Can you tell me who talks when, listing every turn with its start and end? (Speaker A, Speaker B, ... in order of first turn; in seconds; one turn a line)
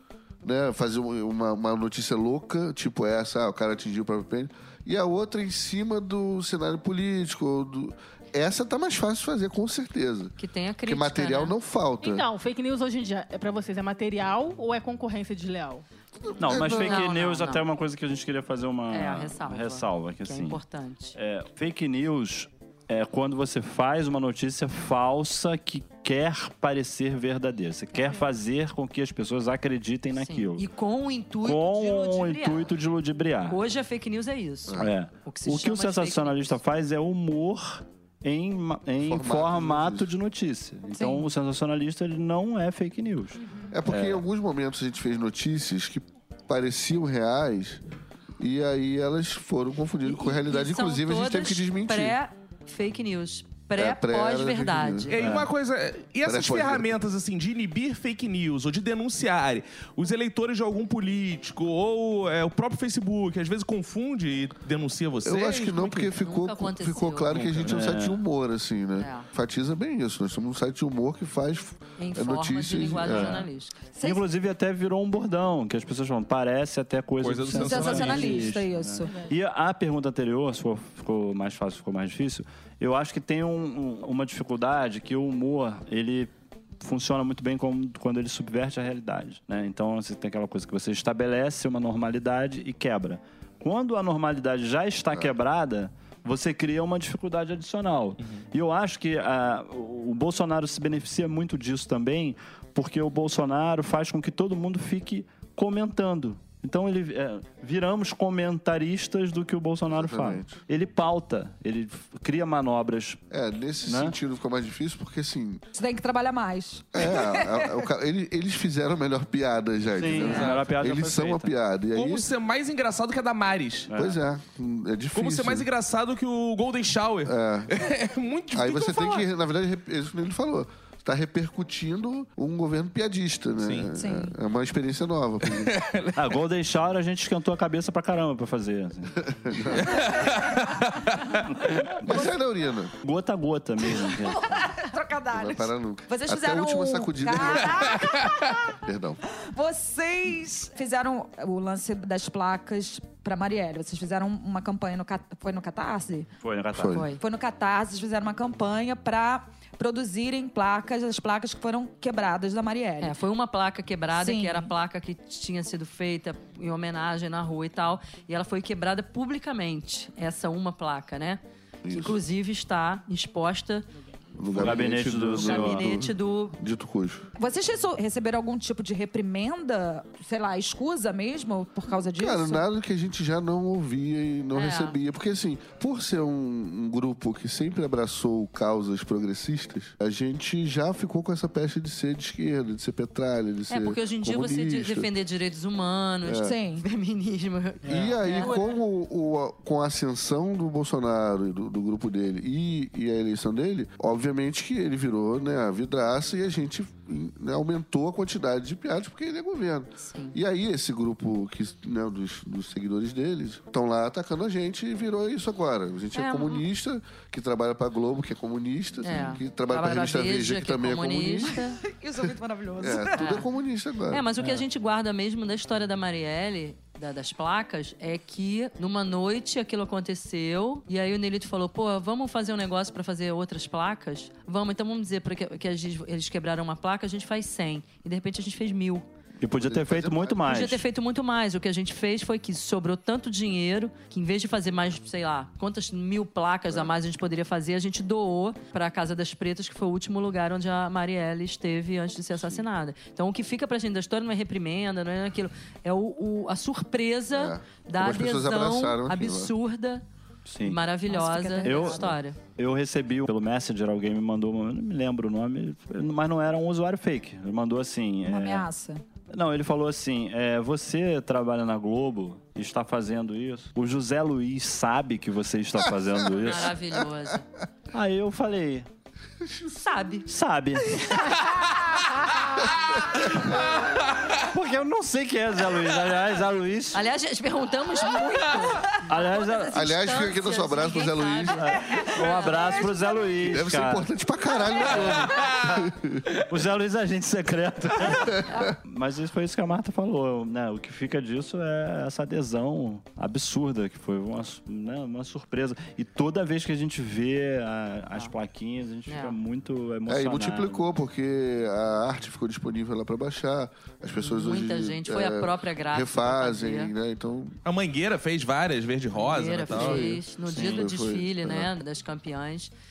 Speaker A: 0.4-12.2
Speaker B: 10.4-11.5
Speaker C: 12.0-15.8
Speaker A: 16.2-17.1
Speaker D: 16.4-20.6
Speaker B: 16.5-17.6
Speaker B: 18.9-21.1
Speaker D: 21.1-30.7
Speaker B: 30.2-32.7
Speaker D: 31.4-33.6
Speaker B: 33.5-36.6
Speaker D: 34.8-44.2
Speaker A: 39.0-40.1
Speaker E: 40.9-41.3
Speaker A: 43.7-47.8
Speaker A: 48.4-52.2
Speaker B: 50.0-55.2
Speaker A: 53.7-55.1
Speaker F: 55.1-66.1
Speaker D: 55.2-55.5
Speaker A: 56.2-56.9
Speaker A: 65.2-73.5
Speaker B: 66.2-67.6
Speaker F: 67.3-67.8
Speaker D: 67.6-68.2
Speaker B: 69.0-69.3
Speaker B: 72.0-73.7
Speaker D: 73.0-73.5
Speaker E: 73.9-74.2
Speaker D: 74.0-113.2
Speaker F: 77.2-78.6
Speaker E: 77.5-79.1
Speaker A: 109.9-110.6
Speaker A: 113.3-115.6
Speaker D: 113.8-114.2
Speaker E: 115.8-117.8
Speaker A: 116.9-122.3
Speaker D: 120.0-121.5
Speaker F: 120.2-120.6
Speaker F: 121.9-123.9
Speaker D: 123.9-124.2
Speaker A: 123.9-125.7
Speaker F: 125.1-129.3
Speaker A: 127.2-127.9
Speaker A: 128.5-135.7
Speaker F: 133.6-133.9
Speaker E: 133.9-134.3
Speaker F: 135.5-136.2
Speaker D: 136.1-139.2
Speaker A: 139.2-140.2
Speaker F: 139.7-141.7
Speaker E: 139.9-140.6
Speaker D: 141.6-141.9
Speaker A: 141.9-142.9
Speaker D: 143.0-144.7
Speaker E: 143.9-148.5
Speaker A: 145.3-148.1
Speaker F: 147.8-148.5
Speaker A: 148.7-149.2
Speaker E: 149.3-156.3
Speaker D: 156.4-157.1
Speaker A: 156.7-157.1
Speaker B: 156.9-157.2
Speaker E: 157.2-163.2
Speaker B: 163.0-173.9
Speaker E: 164.1-164.7
Speaker A: 171.8-172.2
Speaker A: 174.4-177.2
Speaker D: 174.5-175.9
Speaker B: 175.3-176.5
Speaker E: 177.4-182.7
Speaker A: 182.2-195.1
Speaker B: 184.5-185.0
Speaker B: 193.7-198.6
Speaker A: 196.2-196.5
Speaker E: 196.4-196.8
Speaker D: 197.8-198.2
Speaker A: 197.9-221.6
Speaker B: 216.1-216.6
Speaker B: 219.0-221.8
Speaker E: 221.5-223.4
Speaker A: 222.8-224.2
Speaker B: 223.1-223.5
Speaker B: 224.1-239.0
Speaker D: 224.4-224.6
Speaker D: 239.4-240.8
Speaker A: 239.5-240.7
Speaker B: 240.4-260.0
Speaker A: 252.3-252.6
Speaker A: 257.3-259.5
Speaker D: 260.5-260.8
Speaker B: 260.6-262.4
Speaker E: 261.1-262.1
Speaker D: 261.6-268.7
Speaker E: 268.3-269.0
Speaker D: 269.3-276.7
Speaker B: 276.4-277.4
Speaker D: 277.9-278.9
Speaker A: 279.4-279.7
Speaker B: 279.8-280.3
Speaker D: 280.2-281.2
Speaker F: 282.5-284.4
Speaker A: 282.6-283.8
Speaker D: 284.4-287.0
Speaker B: 286.9-292.9
Speaker D: 289.1-289.7
Speaker A: 289.7-292.0
Speaker D: 291.6-294.1
Speaker E: 292.2-292.7
Speaker A: 293.4-296.3
Speaker F: 294.9-295.8
Speaker D: 296.5-310.9
Speaker A: 298.1-298.7
Speaker B: 309.1-309.4
Speaker A: 310.1-317.6
Speaker B: 314.2-316.9
Speaker F: 317.6-320.1
Speaker B: 319.1-322.7
Speaker A: 319.7-321.7
Speaker D: 320.0-320.8